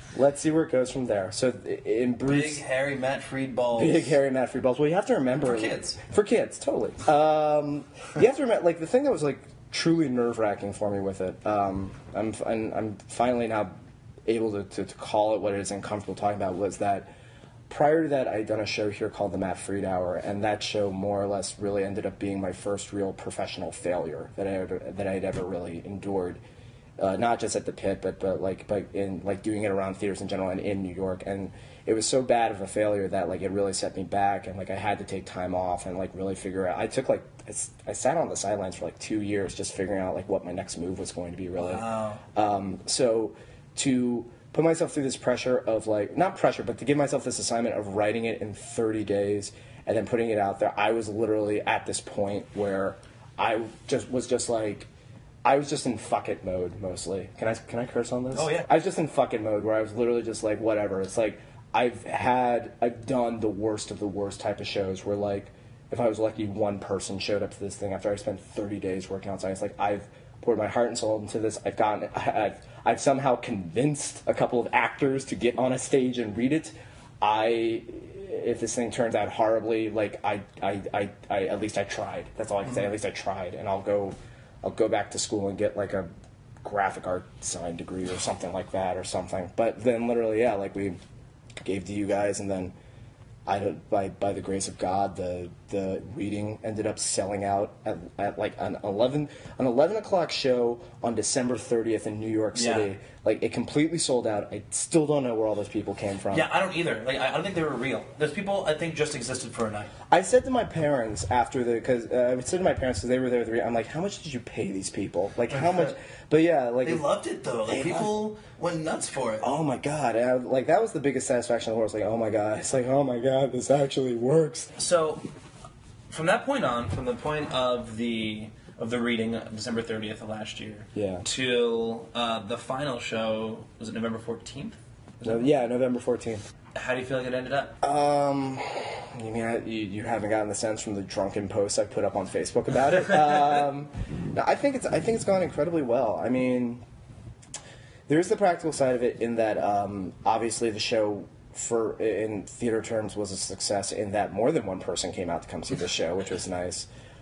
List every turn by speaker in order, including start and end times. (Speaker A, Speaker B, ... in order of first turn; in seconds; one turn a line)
Speaker A: 0.1-2.6
Speaker B: 2.2-4.2
Speaker A: 3.8-13.7
Speaker B: 5.4-6.0
Speaker A: 14.3-17.1
Speaker A: 17.7-26.4
Speaker A: 27.0-54.9
Speaker B: 41.5-42.2
Speaker A: 55.5-86.1
Speaker B: 58.3-58.7
Speaker A: 86.6-91.0
Speaker A: 91.6-92.8
Speaker A: 93.5-106.5
Speaker B: 102.5-102.9
Speaker B: 106.3-109.9
Speaker A: 110.1-117.0
Speaker B: 115.5-115.8
Speaker B: 116.8-119.5
Speaker A: 117.7-118.1
Speaker A: 119.4-124.8
Speaker B: 124.8-125.2
Speaker B: 126.1-135.5
Speaker A: 130.9-131.2
Speaker A: 135.2-136.5
Speaker B: 136.7-137.8
Speaker A: 137.8-146.8
Speaker A: 148.1-156.9